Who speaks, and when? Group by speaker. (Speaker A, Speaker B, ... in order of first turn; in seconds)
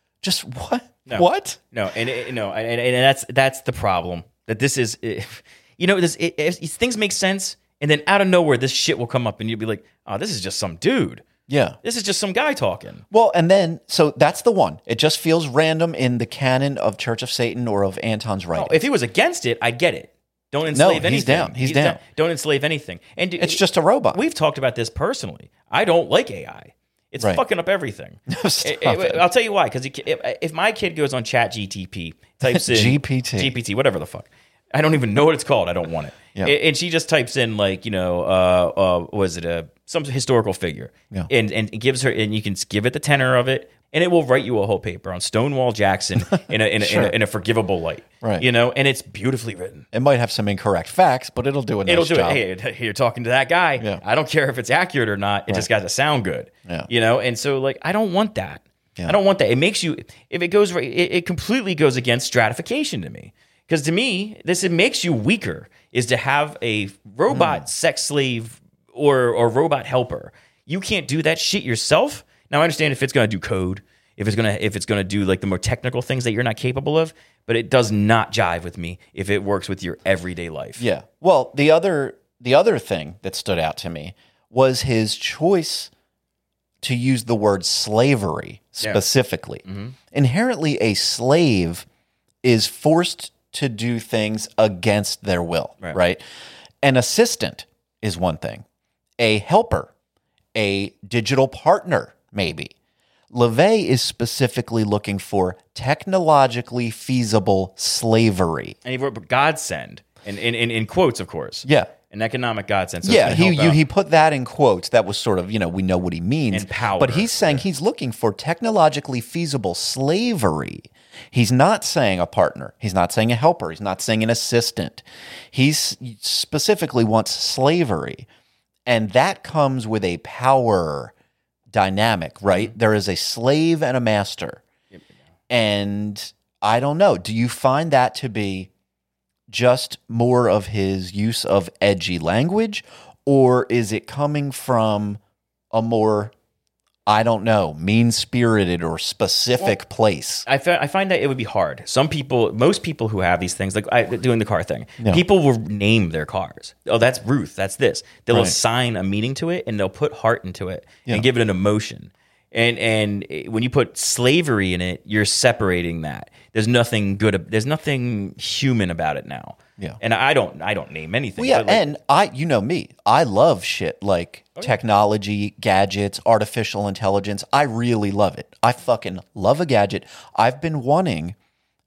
Speaker A: 0.2-1.6, 11.5-11.8, 13.1-18.8, 20.7-22.0, 23.4-24.2, 28.3-29.2, 32.5-33.5, 46.8-47.1, 49.9-52.4, 67.3-67.6, 80.8-85.9, 86.8-91.9, 92.4-96.2, 96.8-98.7, 99.2-99.9, 100.5-102.7, 103.3-108.8, 111.7-111.9, 113.0-128.3, 128.9-131.1, 131.7-134.6, 135.5-138.7, 139.5-145.2, 145.7-146.3, 147.1-150.5, 171.4-181.3
Speaker B: 1.1-11.3, 11.8-13.0, 18.6-49.9, 51.9-80.8, 89.7-90.0, 108.8-113.8, 116.5-117.7, 150.5-171.9